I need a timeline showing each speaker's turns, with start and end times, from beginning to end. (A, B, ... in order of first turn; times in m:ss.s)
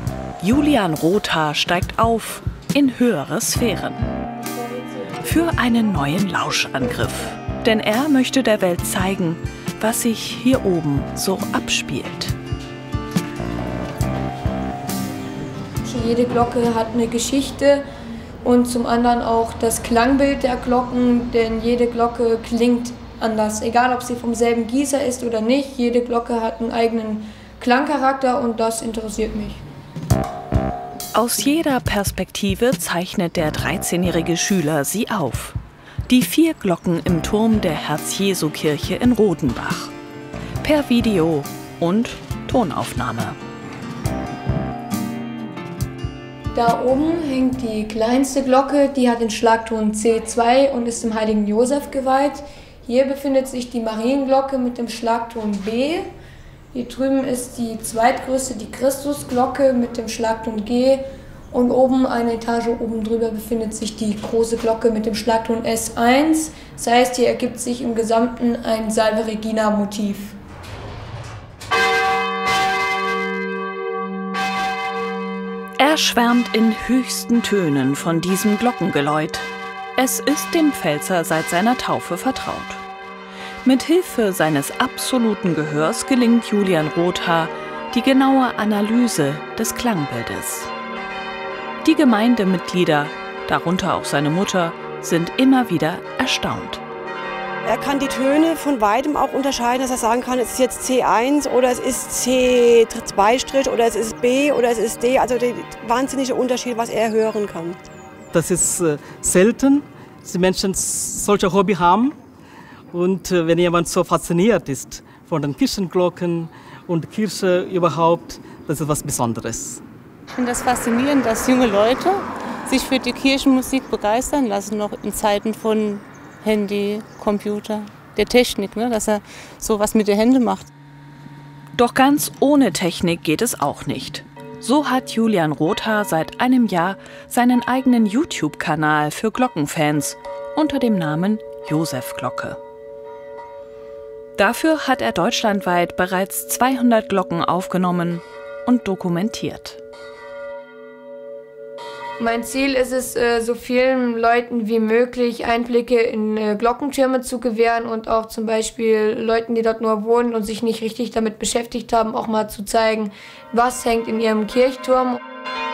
0:00.4-0:04.0 A
0:04.4-0:07.4 B
0:05.2-0:12.4 A
0:15.8-0:17.8 B
0:18.4-0:29.6 B
0:31.1-0:35.6 A
0:36.1-0:39.9 A
0:40.6-0:43.4 A
0:46.5-0:56.1 B
0:56.7-1:10.4 B
1:15.8-1:22.8 A
1:23.6-1:30.7 A
1:31.8-1:36.8 A
1:37.6-1:47.8 C
1:48.3-1:52.2 D
1:52.9-1:59.8 D
2:00.3-2:10.7 E
2:11.8-2:22.6 A
2:24.4-2:29.8 A
2:32.2-2:45.2 B